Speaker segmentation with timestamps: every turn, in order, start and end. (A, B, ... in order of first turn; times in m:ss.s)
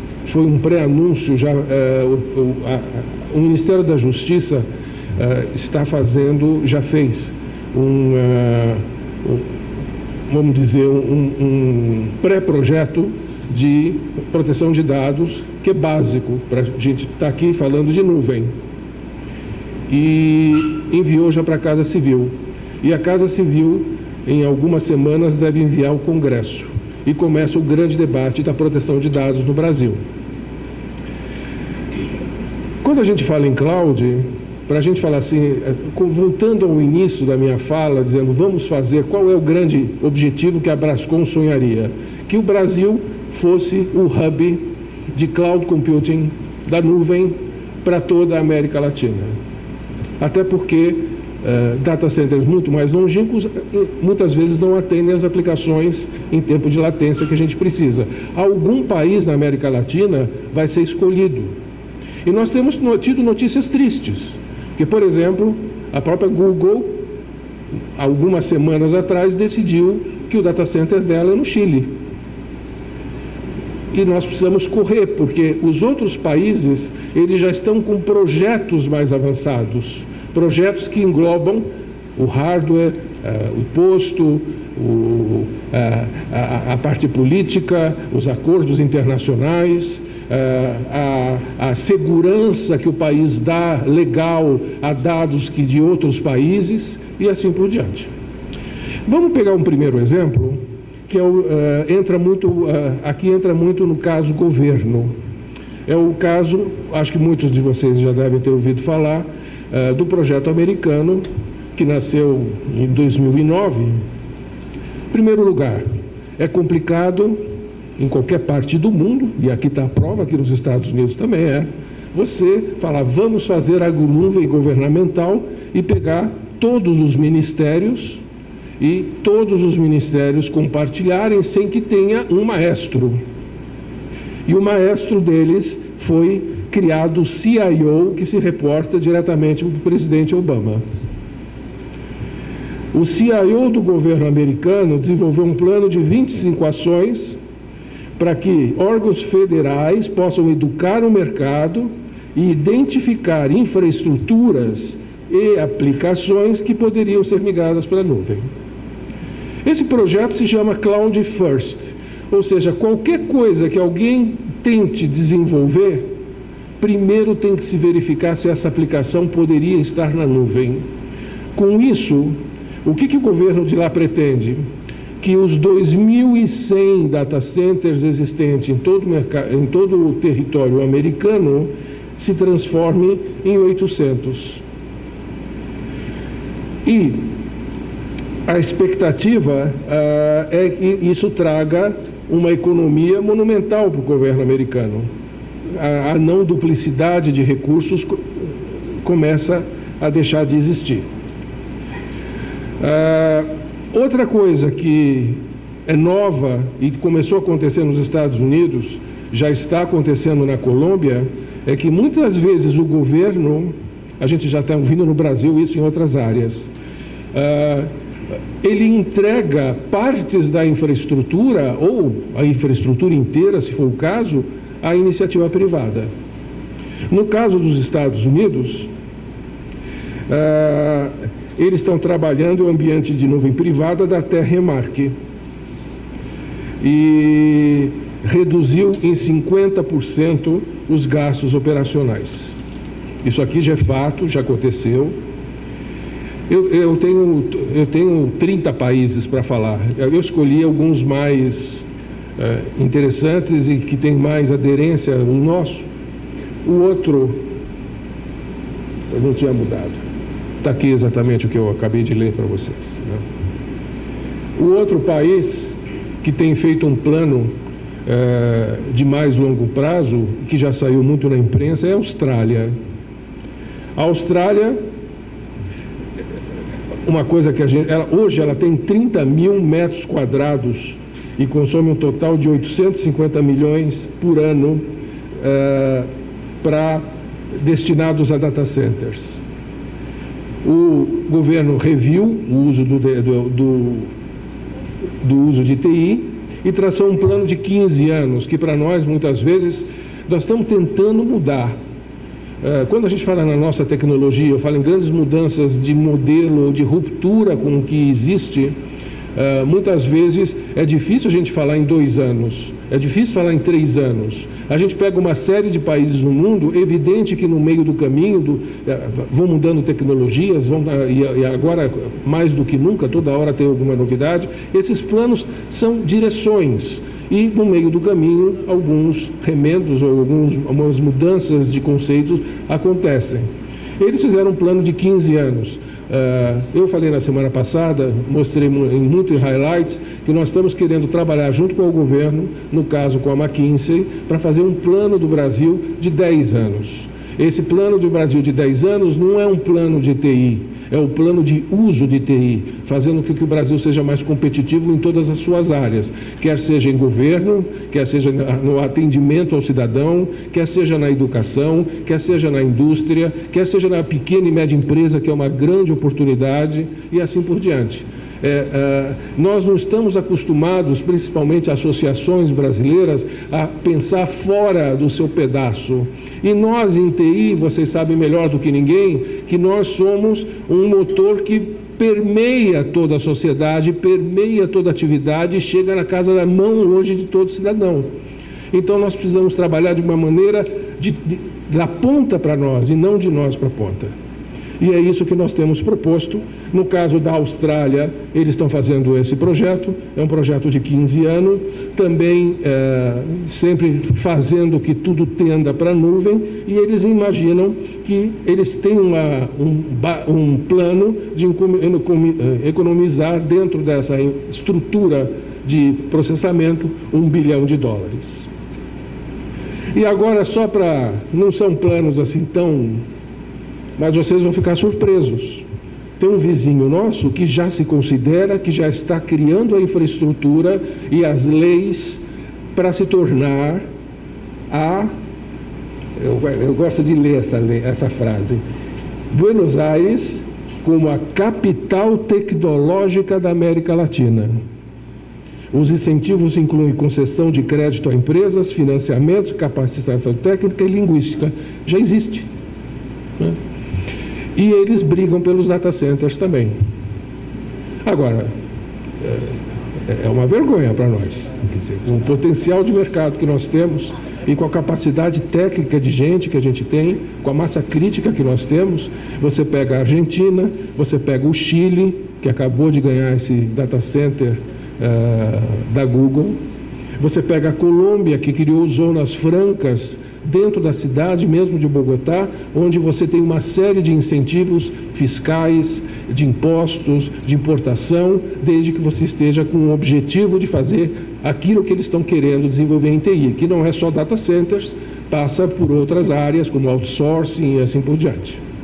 0:00.2-0:04.6 A
0:05.2-0:09.4 A
0:10.3-0:18.5 A
0:19.9-0:30.0 A
0:32.8-0:49.3 A
0:50.2-1:01.5 A
1:02.2-1:07.0 A
1:08.0-1:11.9 A
1:13.9-1:38.1 A
1:39.0-1:45.1 A
1:45.8-1:51.2 A
1:51.7-1:54.0 A
1:55.1-1:55.8 A
1:56.4-1:57.4 A
1:58.0-2:08.2 A
2:08.8-2:13.2 A
2:14.4-2:20.8 A
2:22.9-2:27.4 A
2:28.2-2:38.5 A
2:39.6-2:46.1 A
2:46.8-2:50.8 A
2:51.5-2:54.6 A
2:55.2-3:04.6 A
3:06.8-3:07.3 A
3:08.4-3:15.1 A
3:15.7-3:21.0 A
3:22.8-3:36.7 A
3:37.3-3:37.9 A
3:38.6-3:46.1 A
3:47.1-3:48.9 A
3:50.3-3:55.1 A
3:56.8-4:02.6 A
4:03.2-4:05.1 A
4:06.5-4:11.9 A
4:12.4-4:15.9 A
4:16.6-4:17.4 A
4:19.1-4:20.0 A
4:20.6-4:23.2 A
4:24.6-4:27.5 A
4:28.0-4:32.7 A
4:34.0-4:34.8 A
4:37.0-4:44.8 A
4:45.4-4:46.1 A
4:46.6-4:49.4 A
4:50.6-4:54.1 A
4:55.2-5:01.8 A
5:02.6-5:08.7 A
5:09.3-5:33.4 A
5:34.0-6:28.1 A
6:28.7-6:34.1 A
6:34.8-6:58.5 A
6:59.9-7:03.0 A
7:04.0-7:05.6 A
7:06.2-7:13.8 A
7:14.7-7:15.1 A
7:16.2-7:18.6 A
7:19.3-7:24.6 A
7:25.7-7:32.5 A
7:34.6-7:36.7 A
7:38.0-7:38.5 A
7:39.2-7:39.5 A
7:40.1-7:56.6 A
7:57.2-8:18.6 A